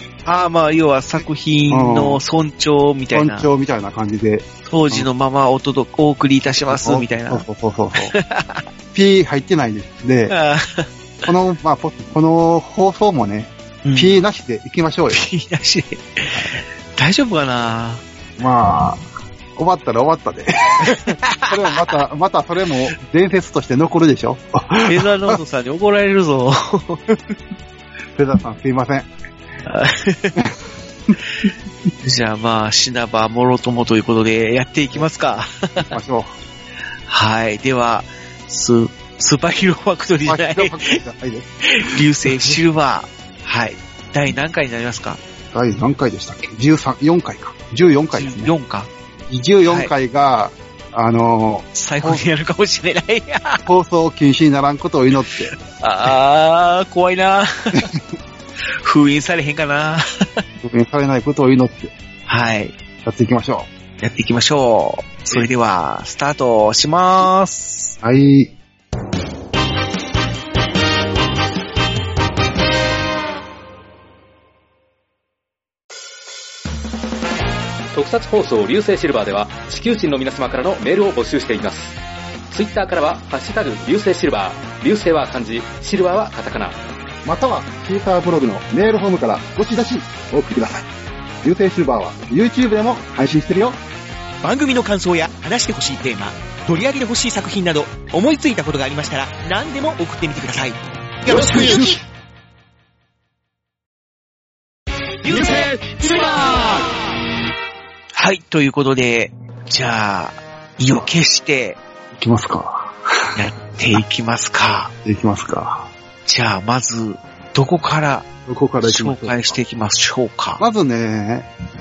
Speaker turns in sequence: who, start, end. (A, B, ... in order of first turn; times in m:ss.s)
0:00.2-0:03.5 A
0:01.7-0:02.2 B
0:03.1-0:05.1 B
0:04.7-0:08.6 A
0:06.6-0:08.2 B
0:08.9-0:10.4 B
0:10.3-0:10.9 A
0:11.2-0:15.2 B
0:13.8-0:14.2 A
0:15.1-0:18.0 A
0:18.4-0:19.0 B
0:19.6-0:25.4 B
0:20.8-0:21.9 A
0:24.9-0:27.0 A
0:28.2-0:29.1 B
0:29.7-0:30.4 A
0:32.0-0:35.9 A
0:35.8-0:36.3 B
0:37.1-0:41.0 A
0:40.2-0:42.6 B
0:41.7-0:45.2 A
0:45.5-0:48.5 B
0:48.1-0:48.9 A
0:49.3-0:52.3 B
0:49.7-0:49.9 A
0:51.7-0:53.6 A
0:53.6-0:55.6 B
0:55.6-0:57.9 A
0:57.7-0:58.0 B
0:58.8-1:00.4 A
1:00.6-1:01.9 B
1:02.3-1:02.8 A
1:03.0-1:03.7 B
1:04.0-1:08.0 A
1:08.0-1:08.5 B
1:17.9-1:22.0 C
1:22.5-1:26.8 C
1:27.2-1:30.9 B
1:31.4-1:33.8 B
1:34.4-1:42.0 D
1:41.3-1:42.0 B
1:45.3-1:45.7 B
1:48.2-1:51.8 A
1:52.2-1:53.0 B
1:53.4-1:54.9 A
1:55.0-1:55.9 B
1:56.2-1:58.3 A
1:58.5-1:59.6 B
1:58.8-2:00.6 A
2:00.6-2:01.5 B